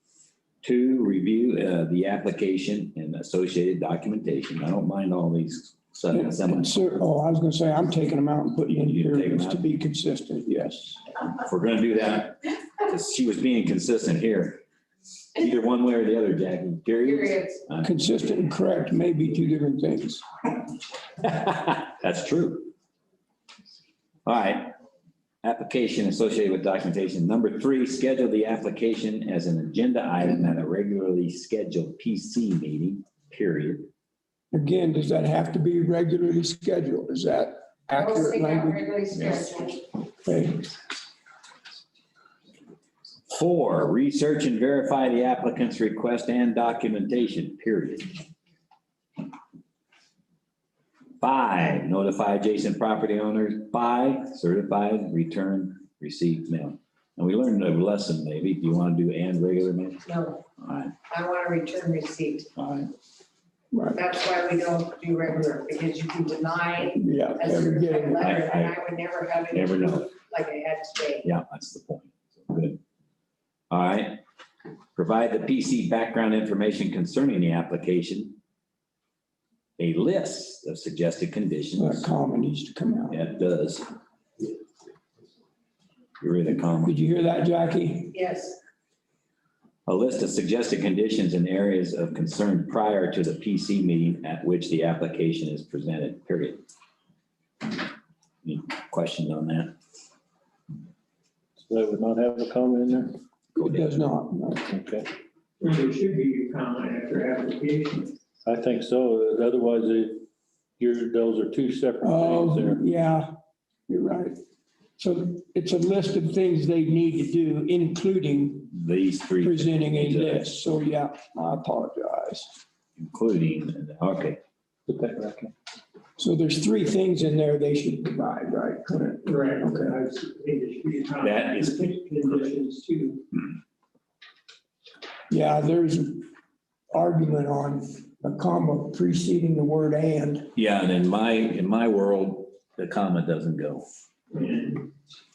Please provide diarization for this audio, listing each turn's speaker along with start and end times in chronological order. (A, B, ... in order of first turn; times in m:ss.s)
0:00.6-0:06.8 A
0:06.1-0:11.0 B
0:08.7-0:09.7 A
0:11.4-0:14.6 A
0:15.4-0:17.9 A
0:17.0-0:17.6 C
0:17.8-0:20.2 B
0:21.2-0:22.7 A
0:24.3-0:24.7 A
0:25.4-0:33.9 A
0:34.5-0:38.8 B
0:38.0-0:39.8 C
0:40.3-0:40.7 B
0:43.3-0:48.2 A
0:51.2-1:00.0 A
1:00.1-1:00.4 C
1:00.6-1:00.9 A
1:01.1-1:02.5 C
1:02.6-1:02.9 A
1:03.7-1:04.0 B
1:03.9-1:11.3 C
1:07.0-1:08.2 B
1:08.2-1:08.8 A
1:09.5-1:10.1 A
1:11.2-1:12.8 A
1:13.7-1:14.2 A
1:15.0-1:18.4 A
1:19.8-1:22.1 A
1:21.8-1:23.2 B
1:23.1-1:23.8 A
1:26.2-1:27.0 A
1:26.8-1:28.1 B
1:28.1-1:28.6 C
1:29.9-1:36.6 A
1:38.4-1:39.8 A
1:41.6-1:43.6 D
1:43.6-1:44.6 B
1:44.7-1:45.1 D
1:45.6-1:48.1 E
1:48.4-1:50.3 D
1:50.8-1:52.8 D
1:52.0-1:53.3 B
1:53.9-1:54.4 B
1:55.0-1:58.7 B
1:58.7-2:00.5 A
1:59.4-2:02.5 B
2:03.0-2:04.4 A
2:04.9-2:05.5 D
2:06.2-2:10.0 B
2:09.2-2:13.2 E
2:11.2-2:11.9 A
2:15.3-2:16.2 B
2:16.9-2:20.5 B
2:20.6-2:23.9 A
2:24.3-2:24.8 E